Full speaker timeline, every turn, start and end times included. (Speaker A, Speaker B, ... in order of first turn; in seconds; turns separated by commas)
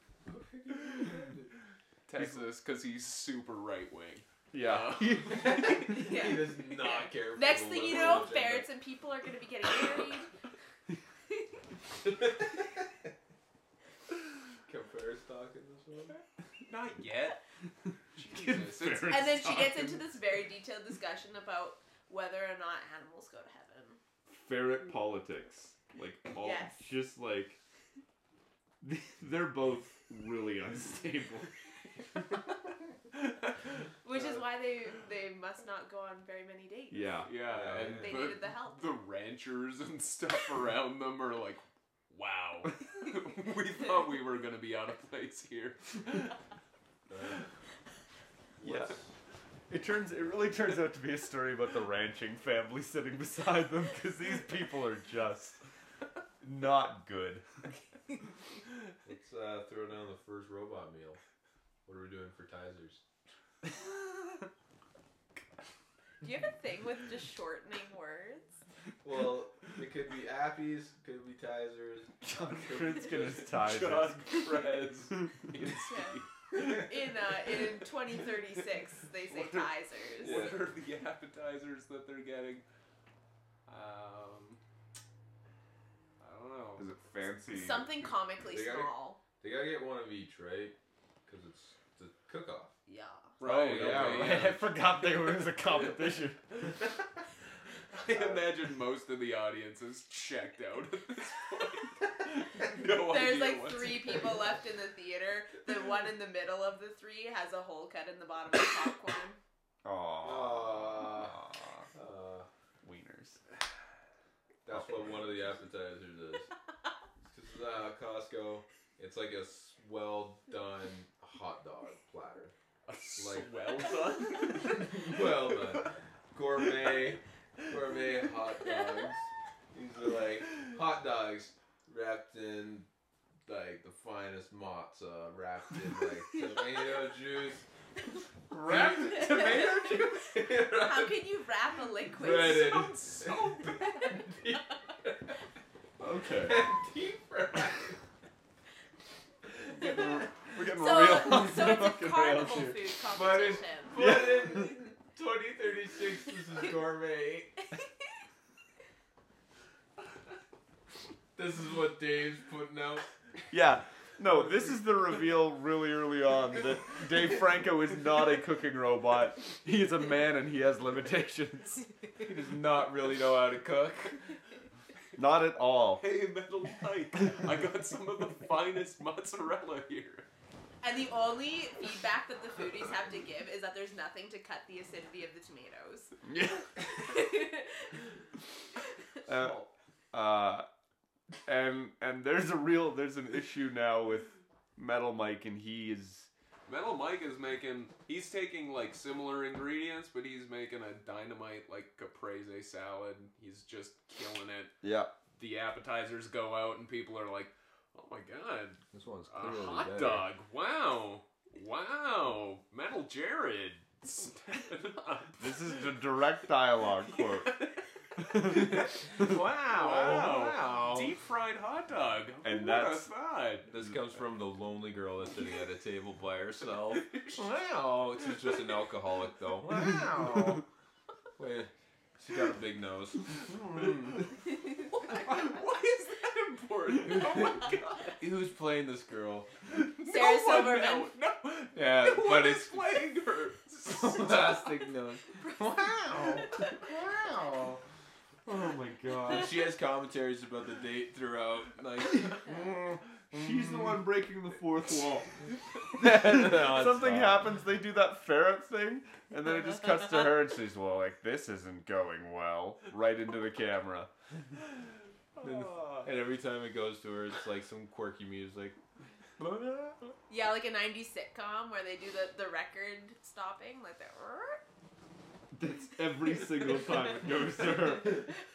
Speaker A: 0.2-1.5, Speaker B: 2.1-5.7, Speaker C: 2.2-2.5, Speaker C: 4.5-5.9, Speaker A: 5.2-8.7, Speaker D: 5.8-10.3, Speaker A: 14.7-16.2, Speaker B: 16.7-17.4, Speaker B: 18.2-19.3, Speaker C: 18.2-20.0, Speaker D: 19.1-24.0, Speaker C: 24.3-27.6, Speaker D: 26.4-26.8, Speaker C: 28.8-31.5, Speaker D: 34.0-37.3, Speaker C: 36.9-37.3, Speaker B: 37.2-46.4, Speaker A: 37.5-38.3, Speaker D: 37.9-38.9, Speaker A: 47.1-47.4, Speaker A: 48.6-49.1, Speaker C: 48.6-49.0, Speaker C: 49.7-55.6, Speaker C: 56.4-57.5, Speaker A: 59.0-61.2, Speaker A: 61.9-63.0, Speaker D: 66.2-68.6, Speaker A: 69.0-73.5, Speaker C: 72.2-74.5, Speaker B: 73.5-76.7, Speaker D: 75.8-80.5, Speaker B: 79.3-82.6, Speaker A: 80.2-80.7, Speaker B: 83.7-84.6, Speaker B: 86.2-87.0, Speaker C: 86.8-88.1, Speaker D: 87.5-89.2, Speaker A: 88.5-92.8, Speaker D: 92.9-93.3, Speaker B: 93.4-94.6, Speaker A: 93.4-94.6, Speaker C: 93.4-96.5, Speaker B: 95.4-95.9, Speaker B: 97.9-104.3, Speaker A: 98.1-98.5, Speaker D: 102.9-109.4, Speaker C: 109.8-111.9, Speaker A: 110.2-111.4, Speaker A: 111.9-112.5, Speaker C: 112.8-113.4, Speaker A: 114.7-116.5, Speaker A: 117.2-122.5, Speaker B: 122.9-125.2, Speaker A: 123.2-123.5, Speaker A: 124.6-132.9, Speaker A: 133.5-137.7, Speaker C: 138.5-139.6, Speaker A: 138.6-141.2, Speaker D: 138.8-142.8, Speaker A: 142.1-145.4, Speaker B: 142.4-143.8, Speaker C: 146.0-146.7, Speaker A: 146.4-148.0, Speaker A: 149.5-150.1, Speaker C: 149.7-152.9, Speaker D: 150.6-154.1, Speaker A: 153.1-157.6, Speaker C: 153.9-154.7, Speaker A: 161.4-163.1, Speaker C: 163.5-171.9, Speaker A: 164.3-164.8, Speaker A: 172.2-174.3, Speaker C: 175.2-176.1, Speaker B: 176.0-180.3, Speaker D: 180.8-186.2, Speaker C: 186.2-186.8, Speaker D: 186.9-188.0, Speaker C: 189.3-190.7, Speaker A: 189.3-189.7, Speaker C: 191.4-196.3, Speaker B: 196.7-204.7, Speaker C: 204.8-205.1, Speaker B: 205.3-215.9, Speaker A: 208.9-210.3, Speaker C: 215.4-217.6, Speaker B: 217.1-217.8, Speaker C: 218.2-219.3, Speaker B: 218.4-219.0, Speaker A: 218.4-221.1, Speaker B: 219.7-223.7, Speaker C: 222.4-223.1, Speaker A: 223.7-230.6, Speaker B: 226.9-227.5, Speaker A: 231.4-234.3, Speaker D: 234.5-235.9, Speaker B: 235.0-238.2, Speaker A: 237.1-237.6, Speaker A: 238.2-239.5, Speaker B: 239.7-244.7, Speaker D: 240.0-241.1, Speaker A: 241.7-242.8, Speaker A: 243.8-247.8, Speaker D: 246.1-246.8, Speaker C: 248.5-249.6, Speaker A: 249.2-254.0, Speaker C: 253.3-255.4, Speaker A: 255.9-257.4, Speaker C: 256.0-264.1, Speaker C: 265.4-266.1, Speaker A: 265.4-268.8, Speaker A: 269.4-269.9, Speaker D: 270.3-274.6, Speaker C: 275.5-278.3